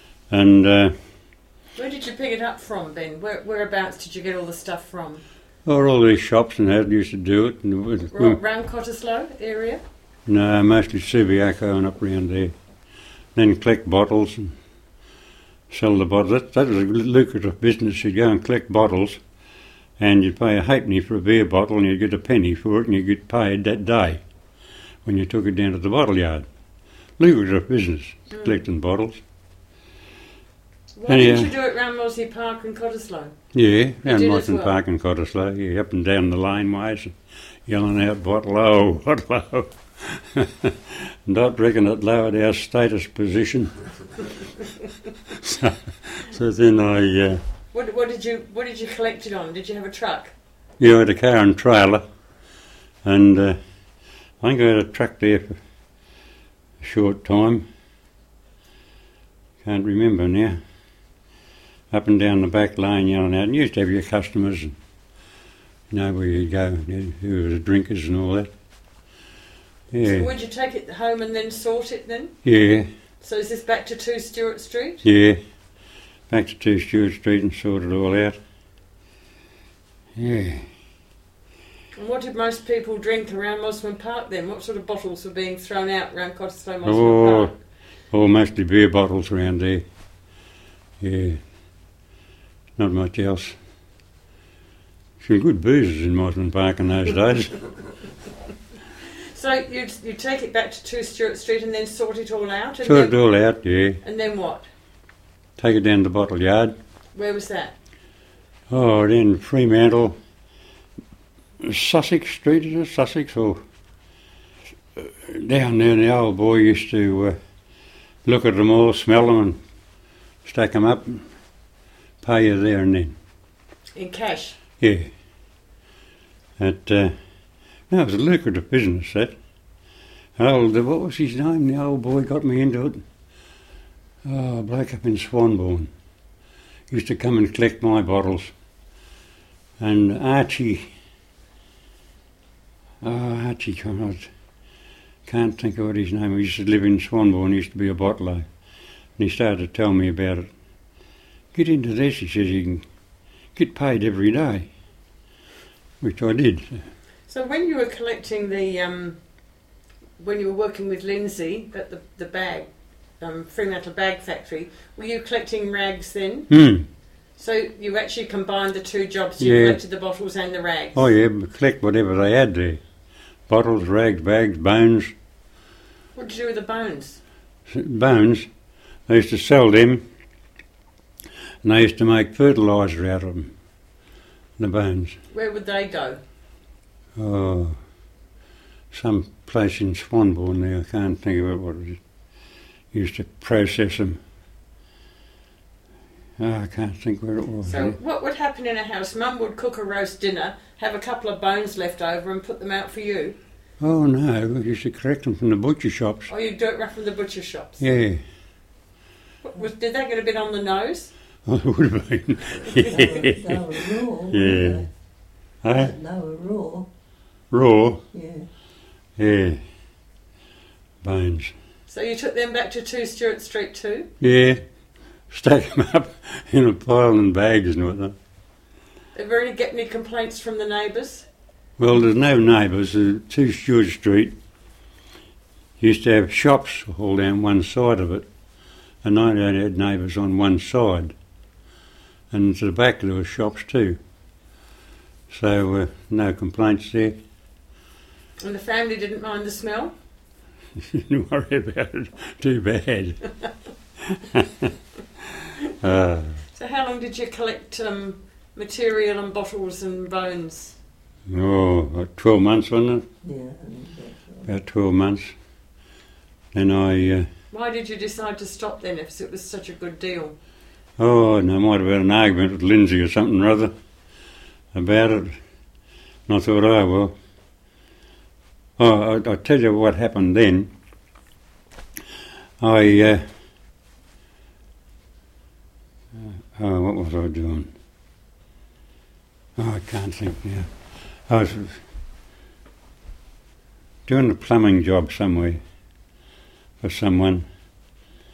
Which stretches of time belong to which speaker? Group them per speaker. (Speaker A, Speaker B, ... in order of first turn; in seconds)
Speaker A: 0.3-0.9, 5.7-8.4, 10.3-12.5, 13.4-14.5, 15.7-19.2, 20.0-24.2, 25.1-26.5, 27.2-29.2, 31.1-31.5, 33.5-37.1, 37.7-43.8, 45.3-47.4, 50.8-52.0, 53.0-53.6, 54.4-55.6, 56.8-57.6, 59.6-60.6, 61.9-64.8, 65.9-68.5, 69.9-70.3, 72.4-72.9, 75.0-75.4, 76.3-78.4, 80.2-80.7, 86.8-87.5, 88.1-89.8, 91.0-91.4, 92.8-93.5, 95.2-97.6, 102.8-104.0, 105.6-106.7, 108.7-110.2, 111.6-113.6, 115.0-117.4, 118.2-119.6, 120.5-121.2, 122.2-123.2, 124.8-125.1, 126.6-127.1, 127.9-129.3, 130.4-133.0, 134.2-135.9, 136.9-138.5, 139.8-140.9, 143.0-144.3, 145.3-148.5, 149.2-150.5, 151.5-152.8, 153.6-154.7, 156.0-156.8, 166.5-166.9, 169.4-169.8, 170.9-172.8, 173.5-175.1, 177.7-178.5, 179.1-180.0, 181.6-183.5, 184.6-185.2, 187.2-187.8, 188.9-192.0, 192.9-194.2, 196.4-198.0, 203.8-206.3, 207.8-208.2, 211.5-214.9, 215.6-215.9, 217.5-218.0, 219.2-219.6, 221.0-221.5, 224.2-224.6, 225.3-228.2, 231.8-234.3, 235.8-238.3, 239.0-241.2, 242.3-244.0, 245.3-247.2, 250.8-253.3, 254.1-254.7, 255.6-256.4, 261.3-263.1, 264.4-265.3, 266.5-267.3, 271.0-273.7, 274.7-275.4, 276.3-277.1, 278.8-280.7, 282.6-283.2, 286.2-287.7, 289.6-290.7, 291.3-291.8, 294.1-295.6, 296.8-297.4
Speaker B: 1.8-5.2, 8.1-9.8, 31.0-33.3, 34.0-34.8, 47.7-50.3, 70.0-72.3, 73.2-75.0, 82.0-87.6, 99.2-103.2, 104.0-104.7, 107.2-107.7, 124.0-124.6, 157.3-159.2, 160.2-162.7, 163.2-166.5, 167.4-171.1, 176.2-177.2, 185.3-186.2, 197.7-203.4, 206.3-207.8, 209.4-211.1, 212.8-213.1, 221.9-224.1, 229.2-231.3, 248.4-249.9, 256.5-260.8, 267.5-270.4
Speaker C: 212.9-214.9, 215.7-216.9, 218.1-218.5, 263.2-264.5